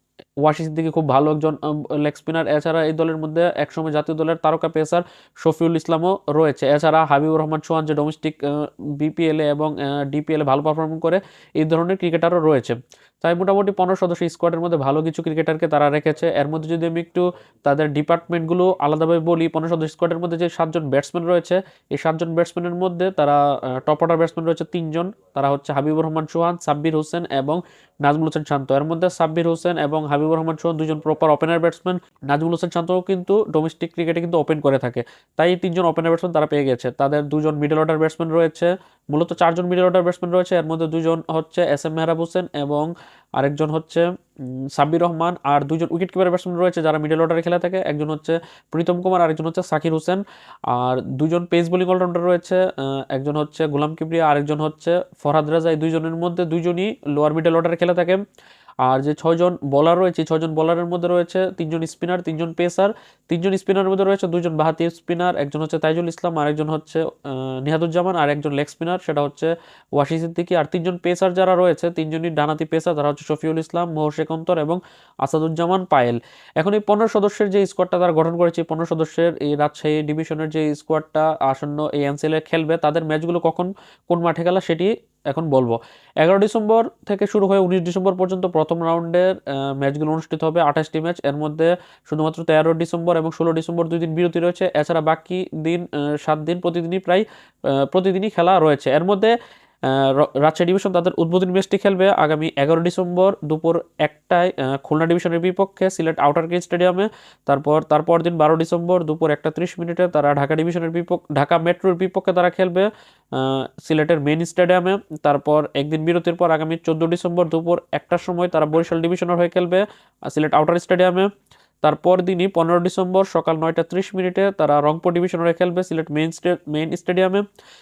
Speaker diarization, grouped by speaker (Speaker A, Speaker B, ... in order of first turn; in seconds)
Speaker A: 0.4-44.1, 44.7-58.2, 58.8-121.3, 121.8-127.4